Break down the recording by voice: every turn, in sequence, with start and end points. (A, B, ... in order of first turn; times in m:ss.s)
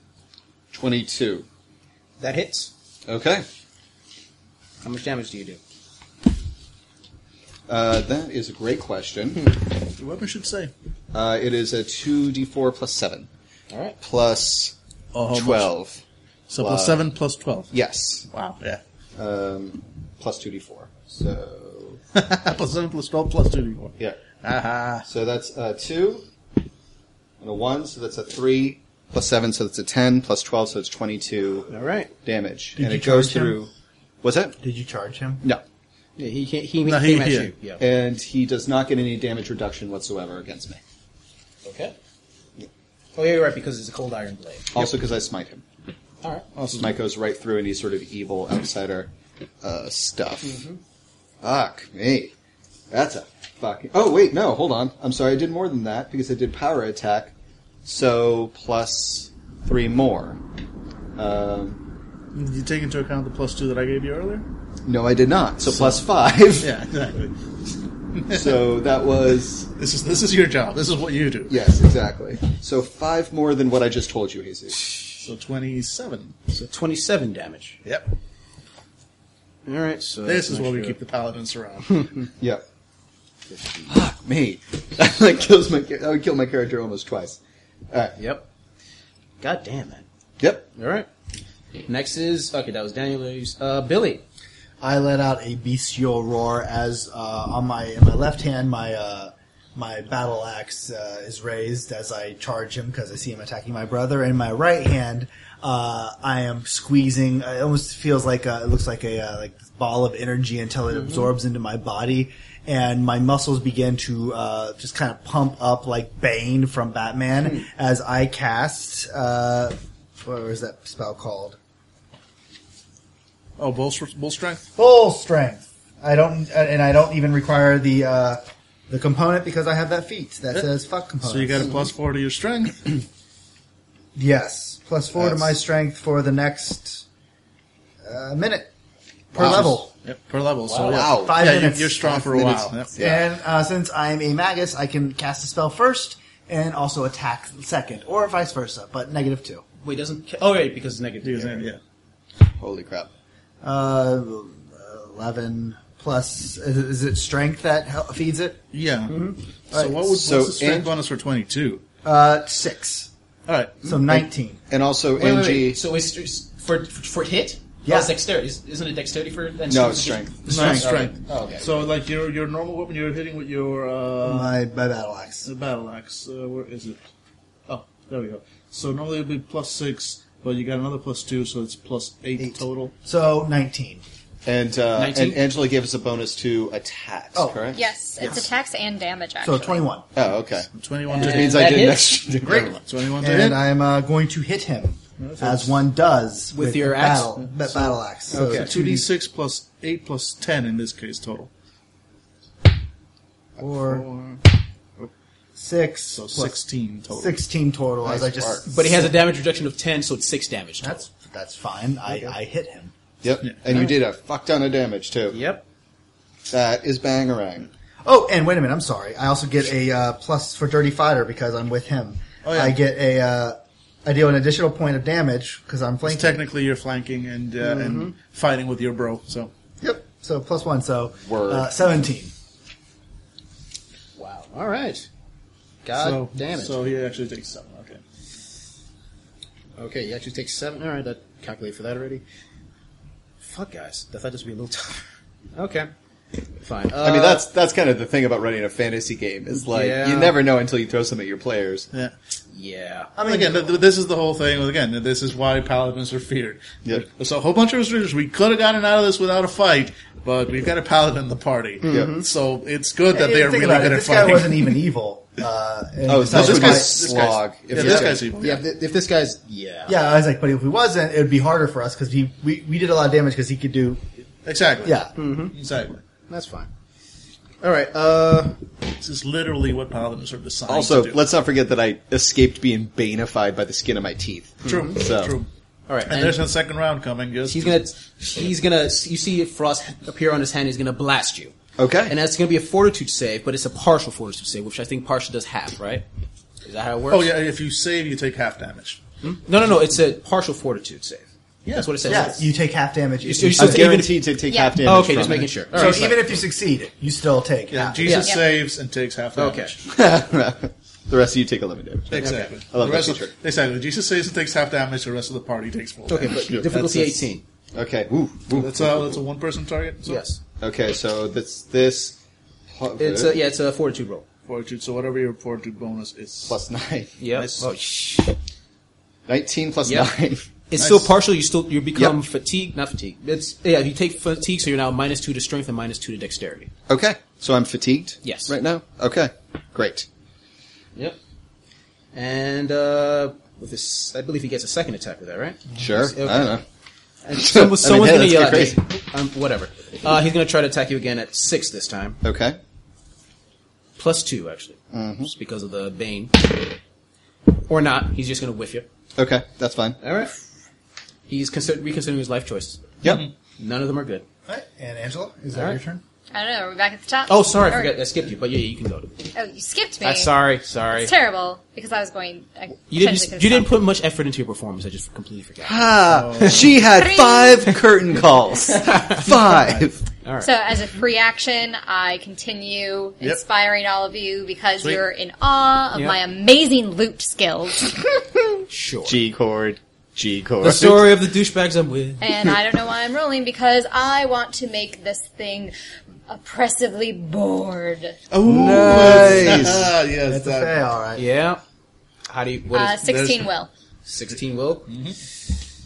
0:00.7-0:01.4 A
0:02.2-0:02.7 B
0:03.1-0:03.4 A
0:04.8-0:05.6 B
0:07.7-0:09.5 A
0:10.0-0:10.7 C
0:11.1-0:13.3 A
0:13.7-0:14.0 B
0:14.0-0:14.7 A
0:15.1-0:15.7 C
0:15.3-0:16.0 A
0:16.5-0:17.7 C
0:16.6-0:17.0 A
0:17.7-0:18.3 A
0:18.3-0:18.8 C
0:19.2-0:22.0 A
0:22.1-0:25.0 C
0:25.0-0:26.2 A
0:27.4-0:31.7 A
0:31.7-0:32.1 B
0:32.2-0:33.7 A
0:32.8-0:33.6 D
0:34.2-0:34.6 A
0:34.6-0:35.4 D
0:36.2-0:37.8 B
0:36.8-0:37.5 C
0:37.8-0:40.8 A
0:41.6-0:41.9 B
0:43.1-0:44.9 B
0:44.7-0:45.6 A
0:46.6-0:46.9 C
0:46.8-0:49.1 A
0:49.6-0:50.6 A
0:50.4-0:50.8 B
0:51.4-0:52.3 A
0:52.9-0:57.3 A
0:57.8-1:00.4 A
1:01.2-1:01.8 A
1:02.3-1:04.4 C
1:04.8-1:06.8 A
1:05.7-1:06.0 C
1:06.6-1:07.3 C
1:08.1-1:08.5 C
1:08.3-1:09.7 A
1:09.8-1:11.6 C
1:11.5-1:14.9 A
1:15.2-1:16.4 C
1:16.5-1:17.8 B
1:17.8-1:18.1 C
1:19.6-1:21.0 B
1:20.2-1:22.3 C
1:22.4-1:22.6 A
1:23.5-1:23.9 B
1:23.9-1:27.4 A
1:27.9-1:28.2 A
1:28.2-1:28.4 B
1:29.4-1:30.0 B
1:30.4-1:30.6 A
1:30.7-1:31.1 B
1:31.8-1:34.2 B
1:34.8-2:01.6 D
2:03.6-2:04.6 C
2:04.8-2:11.8 D
2:11.2-2:13.0 C
2:14.1-2:17.0 D
2:15.2-2:15.5 A
2:18.0-2:18.7 D
2:19.3-2:19.9 D
2:19.4-2:19.6 A
2:19.4-2:22.9 C
2:20.7-2:21.0 B
2:20.8-2:21.4 A
2:21.1-2:29.6 D
2:23.0-2:23.2 A
2:29.8-2:31.7 B
2:31.2-2:31.8 C
2:32.5-2:33.1 A
2:33.6-2:38.6 D
2:38.7-2:41.8 C
2:39.1-2:39.4 B
2:39.7-2:40.0 D
2:40.1-2:40.9 A
2:42.0-2:43.1 D
2:43.5-2:43.8 C
2:43.8-2:44.6 D
2:44.0-2:45.8 A
2:45.2-2:51.7 B
2:47.8-2:48.1 D
2:49.7-2:50.8 A
2:50.5-2:54.5 C
2:50.5-2:50.9 D
2:54.2-2:55.5 D
2:55.4-2:57.0 C
2:57.7-3:02.9 C
3:02.4-3:04.0 D
3:04.4-3:08.4 A
3:05.0-3:05.4 B
3:07.3-3:07.6 D
3:07.7-3:09.8 E
3:09.4-3:10.0 D
3:10.1-3:12.8 A
3:10.7-3:11.6 C
3:11.1-3:12.2 B
3:12.5-3:13.6 C
3:13.2-3:19.1 D
3:15.2-3:15.7 C
3:16.5-3:17.3 B
3:17.7-3:21.5 C
3:18.3-3:18.7 B
3:23.6-3:24.0 D
3:23.6-3:24.4 C
3:25.6-3:26.6 D
3:26.1-3:27.4 C
3:27.1-3:29.1 D
3:28.0-3:28.6 A
3:28.7-3:31.1 B
3:30.8-3:32.9 D
3:33.2-3:35.4 A
3:35.3-3:35.6 B
3:36.5-3:37.7 A
3:38.0-3:46.4 D
3:42.4-3:42.7 C
3:46.0-3:49.5 C
3:47.6-3:48.1 B
3:49.8-3:52.3 D
3:51.2-3:51.7 A
3:54.2-3:55.1 B
3:55.8-3:56.8 B
3:56.0-3:58.0 C
3:59.8-4:02.2 B
4:03.4-4:05.0 B
4:05.6-4:05.9 B
4:06.6-4:07.4 B
4:07.0-4:11.9 A
4:09.6-4:10.4 B
4:12.5-4:13.1 B
4:13.2-4:13.8 D
4:13.2-4:24.7 C
4:21.8-4:22.2 B
4:23.1-4:27.1 D
4:26.0-4:28.4 A
4:26.3-4:28.6 C
4:27.8-4:30.0 B
4:29.9-4:34.0 D
4:34.4-4:36.0 C
4:34.8-4:35.1 D
4:35.2-4:35.5 B
4:36.3-4:36.7 B
4:37.6-4:38.6 B
4:39.0-4:41.2 C
4:40.7-4:45.4 A
4:44.6-4:45.0 B
4:44.6-4:45.5 C
4:45.9-4:46.4 B
4:46.1-4:47.8 C
4:47.5-4:51.5 B
4:51.8-4:52.2 A
4:52.1-4:56.0 B
4:56.6-4:57.3 B
4:57.1-4:59.0 C
4:59.2-5:02.5 B
5:01.6-5:02.2 C
5:02.0-5:04.0 D
5:03.2-5:04.2 B
5:03.6-5:05.6 A
5:04.5-5:04.8 E
5:04.8-5:06.2 B
5:05.7-5:08.2 D
5:05.8-5:06.1 C
5:07.7-5:09.8 C
5:08.0-5:08.4 B
5:09.4-5:09.7 B
5:09.9-5:13.3 A
5:12.1-5:16.5 C
5:12.2-5:12.5 B
5:16.1-5:17.4 B
5:16.4-5:17.2 A
5:17.7-5:19.2 A
5:18.5-5:20.2 C
5:20.0-5:20.4 B
5:20.6-5:22.2 A
5:22.7-5:23.4 A
5:23.0-5:24.2 B
5:24.5-5:26.6 C
5:26.4-5:27.1 A
5:27.2-5:28.3 B
5:27.3-5:27.7 C
5:29.3-5:30.4 A
5:29.8-5:30.1 B
5:30.7-5:36.7 B
5:30.8-5:31.1 C
5:36.9-5:40.1 A
5:38.2-5:38.6 B
5:42.1-5:46.6 B
5:45.8-5:46.6 A
5:47.2-5:52.2 B
5:47.4-5:48.8 A
5:52.2-5:52.6 A
5:54.0-5:56.7 B
5:54.9-5:55.3 A
5:57.5-5:58.9 B
5:59.2-6:00.0 A
6:00.0-6:00.4 B
6:01.3-6:02.8 B
6:03.6-6:04.2 B
6:04.5-6:06.0 D
6:05.5-6:05.8 B
6:06.3-6:07.9 E
6:07.3-6:09.2 B
6:09.3-6:10.4 E
6:10.0-6:11.1 B
6:10.9-6:13.8 E
6:12.9-6:16.6 B
6:15.6-6:20.0 A
6:16.1-6:16.8 C
6:16.9-6:17.8 E
6:18.7-6:19.4 B
6:19.4-6:19.8 C
6:20.2-6:20.5 B
6:20.4-6:28.0 E
6:28.7-6:29.2 B
6:29.0-6:31.1 A
6:30.6-6:32.2 B
6:32.2-6:35.7 E
6:36.3-6:38.2 E
6:38.3-6:40.8 C
6:38.4-6:39.9 A
6:40.3-6:41.2 D
6:41.2-6:41.6 B
6:42.3-6:43.1 B
6:42.7-6:43.7 E
6:43.0-6:43.5 C
6:44.0-6:44.9 B
6:44.9-6:45.2 C